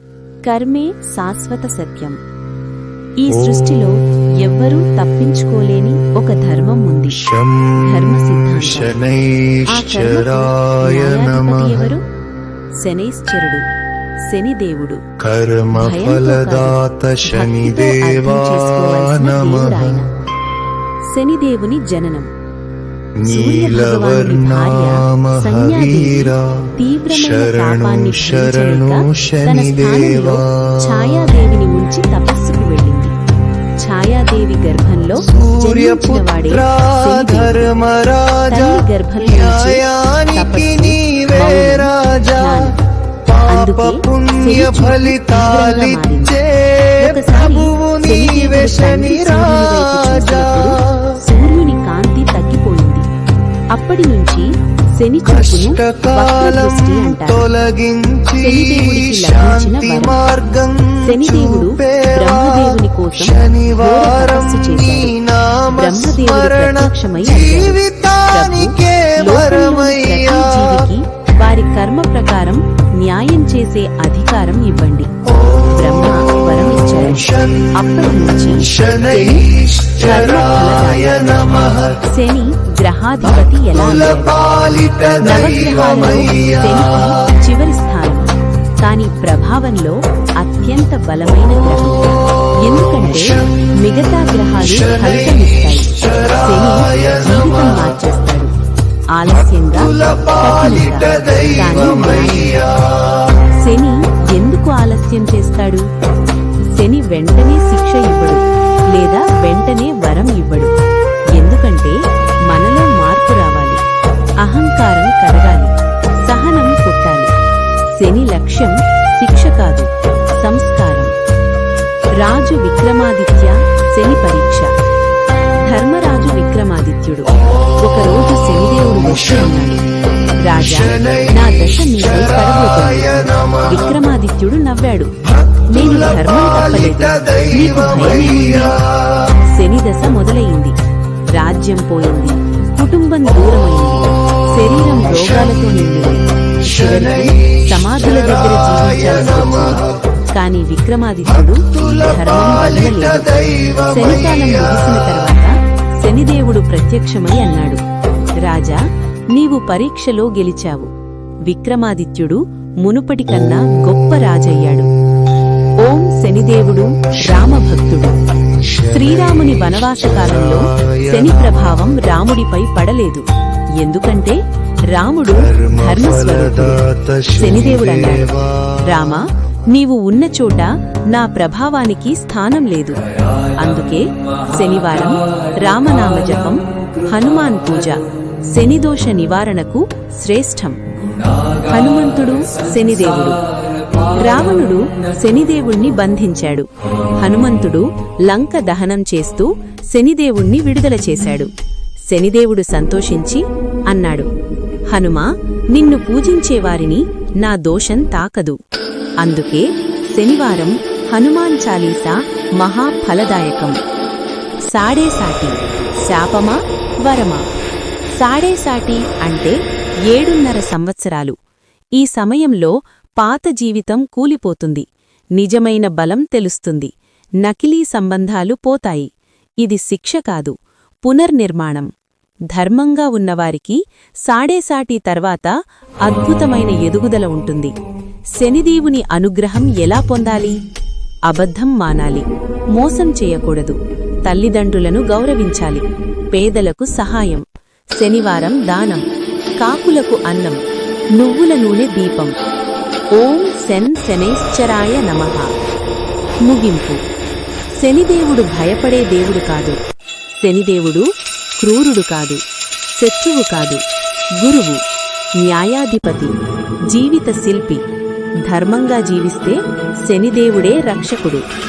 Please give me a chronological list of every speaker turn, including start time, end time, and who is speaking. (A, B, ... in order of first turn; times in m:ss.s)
0:00.4-0:02.2 A
0:03.2-0:07.2 A
0:03.3-0:03.7 B
0:07.1-0:12.0 B
0:07.8-0:09.0 A
0:09.7-0:12.0 A
0:12.8-0:13.6 A
0:14.2-0:15.0 A
0:15.2-0:20.0 B
0:15.8-0:20.1 A
0:21.1-0:22.3 A
0:23.2-0:31.3 B
0:23.3-0:33.1 A
0:33.8-0:37.7 A
0:35.2-0:42.7 B
0:38.5-0:42.8 A
0:43.3-0:51.2 B
0:43.4-0:46.4 A
0:47.0-0:53.0 A
0:53.7-0:57.5 A
0:55.3-1:10.9 B
0:58.4-1:00.2 A
1:01.0-1:05.2 A
1:05.7-1:21.5 A
1:15.4-1:16.3 B
1:17.1-1:17.9 B
1:18.5-1:22.0 B
1:22.0-1:24.5 A
1:23.7-1:27.3 B
1:25.2-1:38.5 A
1:33.2-1:33.4 B
1:34.6-1:38.0 B
1:39.1-1:42.7 A
1:39.6-1:43.3 B
1:43.5-1:45.9 A
1:46.7-1:50.7 A
1:51.3-1:53.8 A
1:54.4-1:57.3 A
1:57.9-2:01.1 A
2:02.2-2:04.7 A
2:05.6-2:09.8 A
2:10.4-2:15.1 A
2:10.6-2:13.9 B
2:15.7-2:18.8 A
2:15.7-2:19.4 B
2:19.4-2:20.8 A
2:21.3-2:33.3 A
2:26.7-2:29.9 B
2:31.5-2:35.1 B
2:33.9-2:37.8 A
2:38.4-2:40.9 A
2:41.5-2:44.9 A
2:45.8-2:48.2 A
2:48.5-2:51.8 B
2:48.9-2:53.2 A
2:53.8-2:56.8 A
2:55.3-2:59.0 B
2:57.3-2:58.3 A
2:58.8-3:03.0 A
3:03.6-3:10.8 A
3:11.6-3:13.4 A
3:14.1-3:16.7 A
3:17.2-3:21.5 A
3:22.1-3:24.3 A
3:24.9-3:28.6 A
3:29.2-3:33.8 A
3:34.7-3:37.4 A
3:38.2-3:39.6 A
3:40.1-3:41.4 A
3:42.0-3:44.8 A
3:45.4-3:49.1 A
3:49.6-3:51.9 A
3:52.5-3:57.7 A
3:58.4-4:00.6 A
4:01.3-4:07.4 A
4:08.0-4:09.0 A
4:09.6-4:10.6 A
4:11.2-4:12.3 A
4:13.1-4:15.5 A
4:16.4-4:17.0 A
4:17.8-4:19.8 A
4:20.4-4:21.1 A
4:21.6-4:22.4 A
4:23.0-4:23.8 A
4:24.4-4:24.8 A
4:25.4-4:26.3 A
4:26.9-4:27.8 A
4:28.4-4:31.4 A